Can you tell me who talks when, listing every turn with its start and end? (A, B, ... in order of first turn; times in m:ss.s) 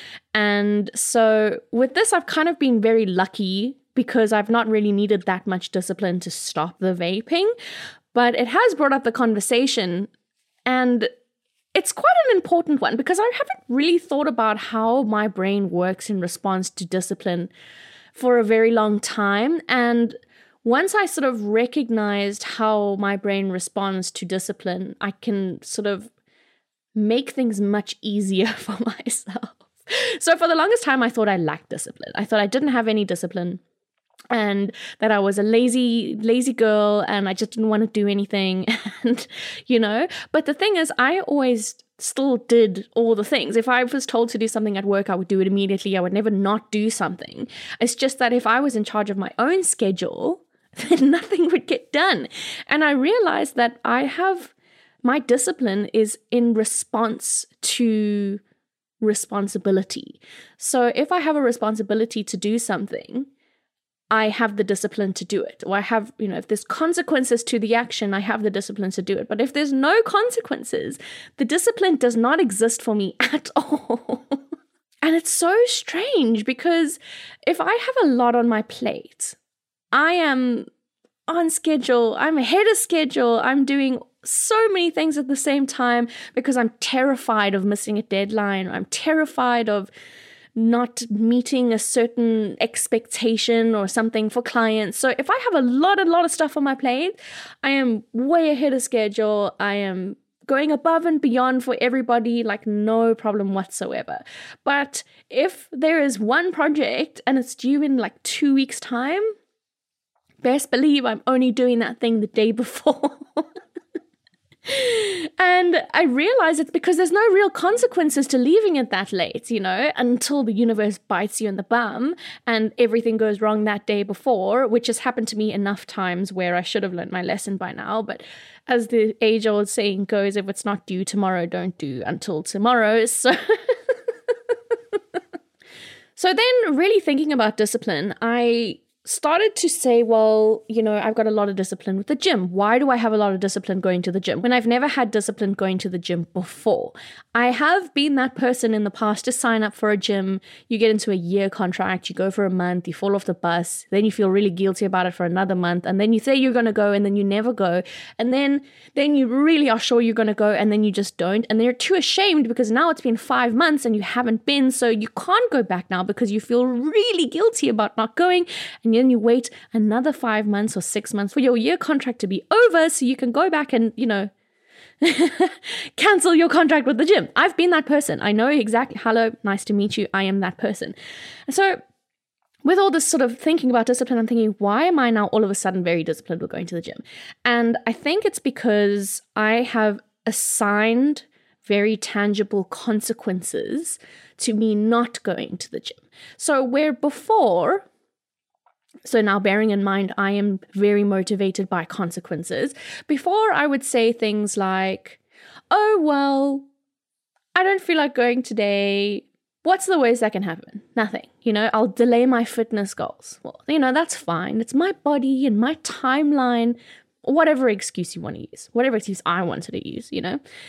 0:00.3-0:07.5 A
0:08.1-0:10.1 A
0:10.6-0:11.1 A
0:11.7-0:17.5 A
0:18.1-0:26.1 A
0:26.9-0:33.6 A
0:34.3-0:54.5 A
0:55.0-0:58.4 A
0:59.0-1:03.3 A
1:04.1-1:14.4 A
1:15.0-1:19.4 A
1:19.9-1:20.6 A
1:21.3-1:29.9 A
1:30.6-1:49.3 A
1:50.4-1:53.5 A
1:54.7-2:15.0 A
2:16.2-2:54.3 A
2:55.0-3:00.9 A
3:01.5-3:01.8 A
3:02.6-3:17.8 A
3:19.0-3:25.2 A
3:25.7-3:26.6 A
3:27.5-3:40.4 A